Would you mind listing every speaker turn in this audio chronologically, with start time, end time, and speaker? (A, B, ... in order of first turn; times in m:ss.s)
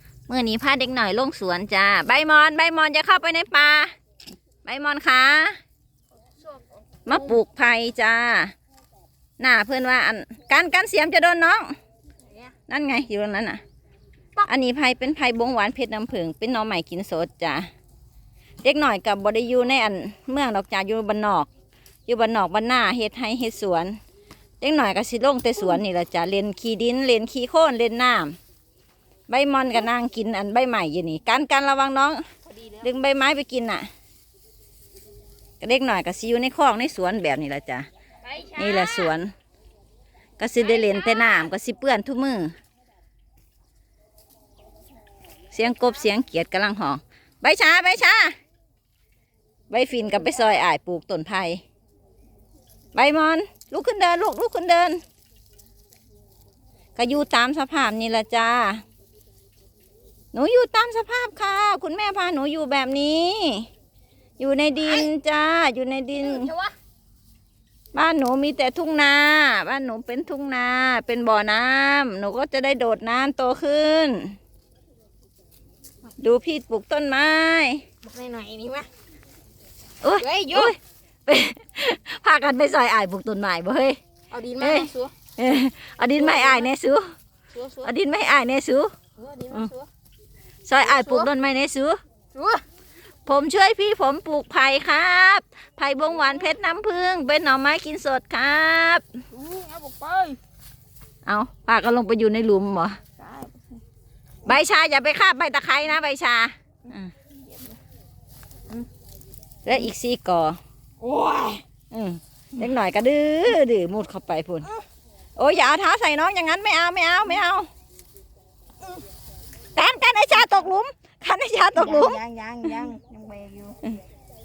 0:00.3-0:03.9 A
0:04.6-0:05.6 A
0:06.4-0:07.4 B
0:07.0-0:08.5 A
0:09.4-0:11.7 A
0:12.7-0:13.6 A
0:14.4-0:17.7 A
0:18.6-0:21.5 A
0:22.1-0:24.0 A
0:24.6-0:28.4 A
0:29.3-0:32.2 A
0:32.5-0:32.9 B
0:32.8-0:33.9 A
0:35.6-0:37.9 A
0:38.2-0:39.1 B
0:38.5-0:39.3 A
0:40.4-0:42.5 A
0:40.6-0:41.5 B
0:45.5-0:48.3 A
0:49.7-0:51.6 A
0:52.9-0:55.0 A
0:57.0-0:58.8 A
1:00.3-1:03.7 A
1:04.4-1:06.5 A
1:06.2-1:06.7 B
1:07.9-1:14.3 A
1:16.2-1:17.8 A
1:18.0-1:18.9 B
1:20.0-1:24.0 A
1:20.2-1:20.7 B
1:24.3-1:25.1 B
1:24.6-1:27.1 A
1:26.1-1:26.7 B
1:27.5-1:27.9 B
1:27.8-1:28.9 A
1:29.2-1:29.9 B
1:30.6-1:32.0 A
1:30.8-1:31.3 B
1:32.3-1:32.6 B
1:33.2-1:39.0 A
1:36.2-1:36.5 B
1:39.3-1:40.4 B
1:41.2-1:43.0 A
1:43.2-1:43.8 B
1:44.4-1:47.1 A
1:47.5-1:47.7 B
1:49.6-1:50.6 A
1:51.0-1:51.6 B
1:51.9-1:54.7 A
1:55.4-1:57.7 A
1:59.8-2:02.2 A
2:01.7-2:03.8 B